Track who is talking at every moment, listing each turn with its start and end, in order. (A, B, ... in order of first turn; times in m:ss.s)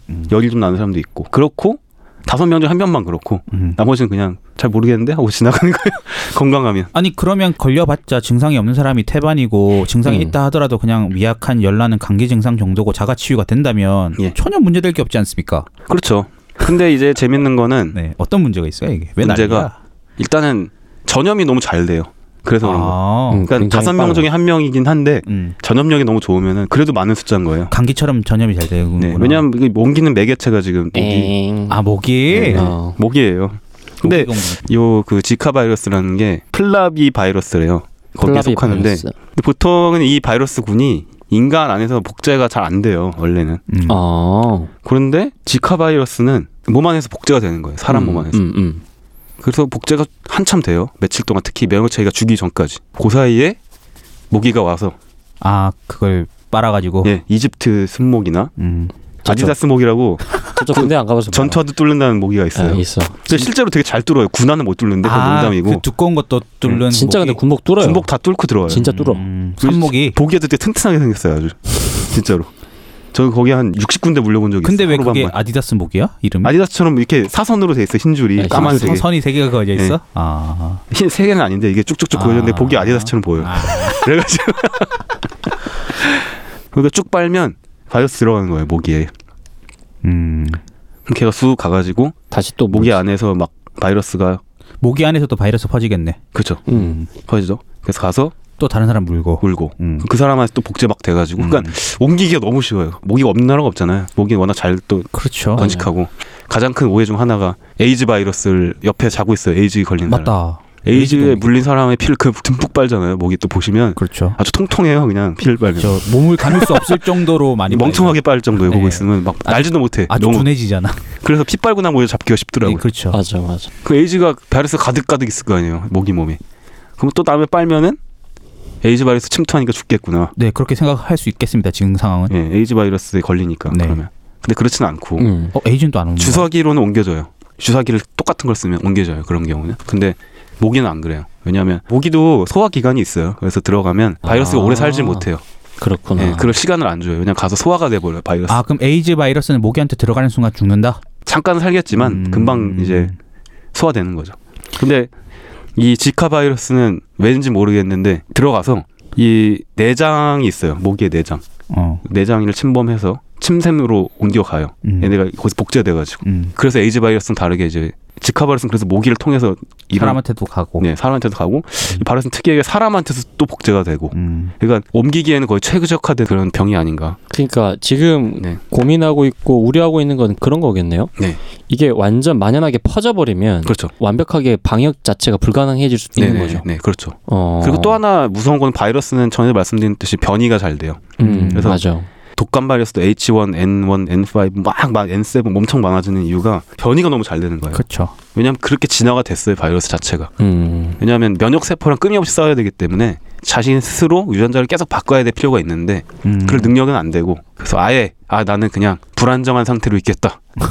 0:00.3-0:06.9 A
0:03.5-0:03.8 B
0:06.9-0:15.7 B
0:15.9-0:18.0 A
0:17.9-0:19.8 B
0:19.2-0:27.7 A
0:22.6-0:23.4 B
0:23.3-0:24.3 C
0:25.3-0:25.6 B
0:27.7-0:29.4 B
0:29.0-0:31.3 A
0:30.9-0:31.8 C
0:31.7-0:32.7 B
0:32.3-0:43.6 A
0:32.5-0:33.0 C
0:34.0-0:34.6 B
0:38.2-0:39.1 C
0:43.7-0:44.0 B
0:43.9-0:44.7 C
0:44.8-0:48.4 A
0:47.9-0:48.8 C
0:49.4-0:53.6 A
0:54.3-0:55.0 A
0:55.4-0:57.1 B
0:57.0-0:58.5 A
0:58.6-0:58.9 B
0:59.2-1:05.8 A
0:59.3-0:59.5 C
1:00.6-1:01.6 C
1:02.6-1:03.4 C
1:05.0-1:07.4 B
1:06.7-1:08.1 C
1:07.8-1:08.9 A
1:08.7-1:09.2 C
1:08.7-1:10.2 B
1:09.6-1:12.5 A
1:13.1-1:15.4 A
1:14.6-1:16.5 B
1:16.4-1:19.1 A
1:18.4-1:19.0 C
1:18.5-1:20.8 B
1:20.9-1:25.1 A
1:22.1-1:24.1 B
1:25.9-1:29.1 A
1:30.0-1:30.6 B
1:31.1-1:32.1 A
1:32.3-1:33.0 C
1:32.7-1:34.4 A
1:34.8-1:36.2 B
1:36.3-1:38.4 A
1:36.7-1:37.0 C
1:38.6-1:40.1 B
1:39.4-1:57.0 A
1:41.4-1:41.7 B
1:45.1-1:45.8 B
1:50.1-1:51.5 B
1:54.0-1:54.4 B
1:55.8-2:01.0 B
1:57.7-2:00.5 A
2:01.2-2:02.8 A
2:02.6-2:03.2 B
2:03.1-2:03.7 C
2:03.8-2:06.4 A
2:07.0-2:08.0 A
2:08.8-2:10.3 A
2:10.4-2:12.3 B
2:12.3-2:15.3 A
2:13.7-2:14.0 B
2:15.2-2:15.5 C
2:15.6-2:16.5 B
2:16.2-2:25.4 A
2:24.2-2:25.3 C
2:25.8-2:26.5 C
2:26.2-2:28.6 A
2:28.5-2:31.0 B
2:31.2-2:33.1 A
2:31.9-2:33.1 B
2:33.7-2:35.1 A
2:35.8-2:41.4 A
2:41.7-2:42.0 B
2:42.0-2:50.2 A
2:44.8-2:45.1 B
2:46.2-2:46.5 B
2:49.9-2:50.9 B
2:50.8-2:57.2 A
2:54.1-2:54.5 B
2:57.3-3:01.1 C
3:01.7-3:06.6 C
3:03.6-3:03.9 A
3:06.2-3:11.8 A
3:07.3-3:08.0 C
3:11.2-3:12.1 C
3:11.2-3:11.8 B
3:12.4-3:20.3 A
3:17.7-3:18.1 B
3:20.4-3:21.0 C
3:21.0-3:30.4 A
3:26.2-3:26.7 B